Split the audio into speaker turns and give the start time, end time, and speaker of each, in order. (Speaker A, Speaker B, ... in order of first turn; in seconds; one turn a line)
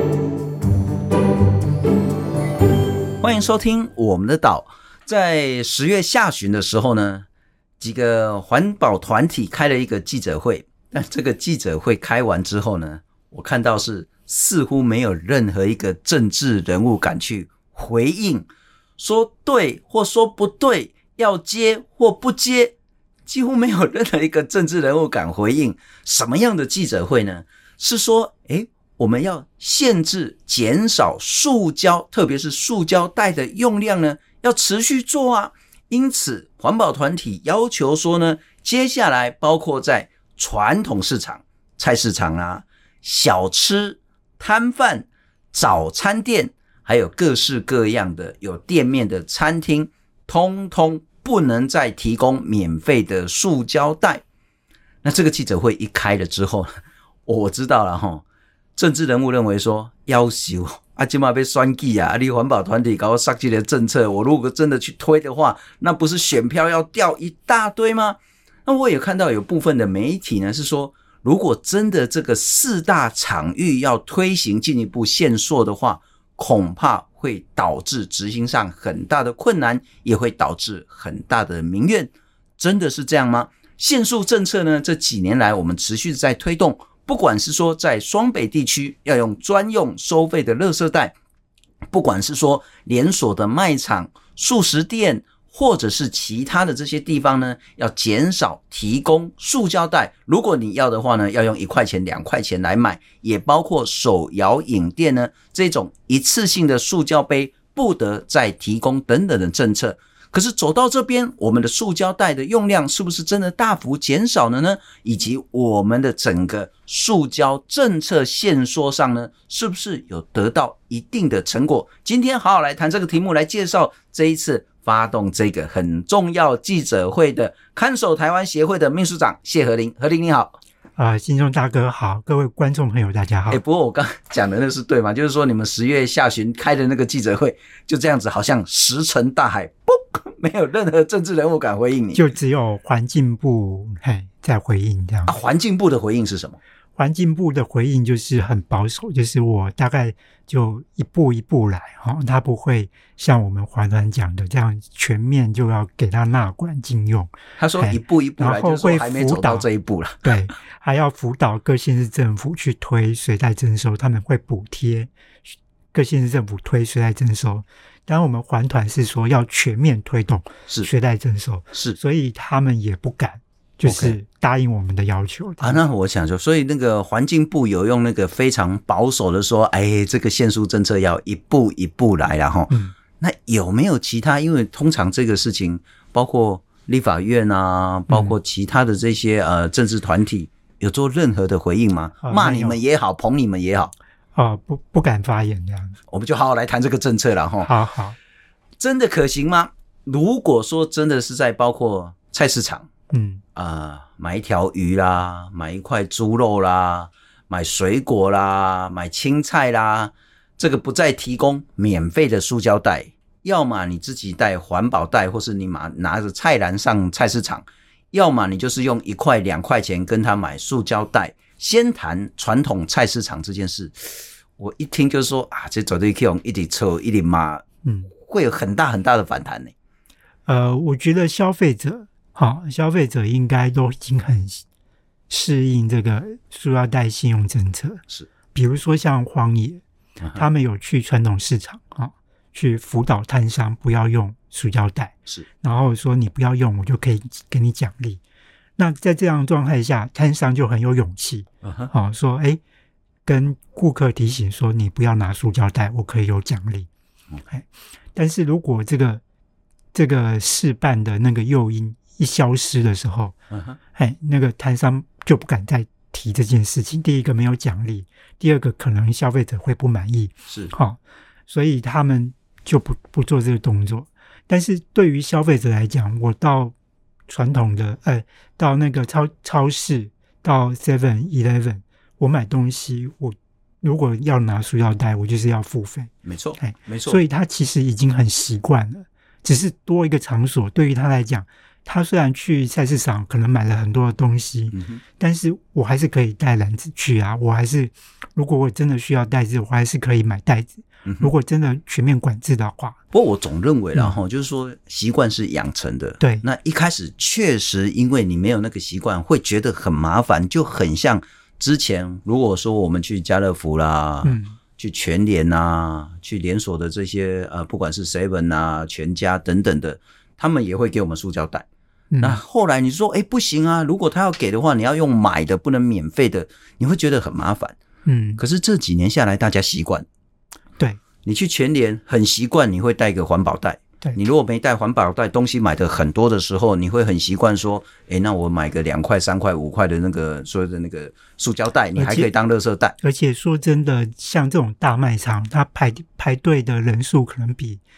Speaker A: 3.2-7.3
Speaker A: 7.8-22.8
Speaker A: 23.3-54.2
Speaker A: 55.0-56.7
Speaker A: 57.3-58.2
Speaker A: 58.8-91.2
Speaker A: 91.9-130.6
Speaker B: 131.0-133.6
Speaker A: 133.5-142.3
Speaker B: 142.1-145.4
Speaker A: 145.3-146.6
Speaker B: 147.0-159.7
Speaker A: 157.6-160.3
Speaker B: 160.2-165.1
Speaker B: 165.9-175.8
Speaker A: 173.8-174.2
Speaker A: 175.6-193.9
Speaker B: 182.7-182.9
Speaker B: 192.2-192.8
Speaker B: 194.4-196.0
Speaker A: 196.1-197.7
Speaker B: 197.6-198.2
Speaker A: 198.8-202.9
Speaker B: 203.1-203.4
Speaker A: 203.6-229.7
Speaker B: 227.8-228.1
Speaker B: 230.5-234.7
Speaker B: 235.3-238.0
Speaker B: 238.5-239.8
Speaker B: 240.3-248.2
Speaker B: 248.8-252.6
Speaker A: 251.6-251.9
Speaker B: 253.2-256.9
Speaker B: 257.5-259.2
Speaker B: 259.9-263.4
Speaker A: 263.5-263.8
Speaker B: 263.9-276.7
Speaker B: 277.3-303.0
Speaker A: 286.2-287.2
Speaker A: 294.7-295.0
Speaker A: 303.1-321.7
Speaker B: 306.2-306.5
Speaker B: 314.2-314.6
Speaker B: 322.1-322.4
Speaker A: 322.2-327.8
Speaker B: 328.1-328.4
Speaker A: 328.4-330.1
Speaker A: 331.2-342.9
Speaker B: 342.0-342.3
Speaker B: 343.0-347.8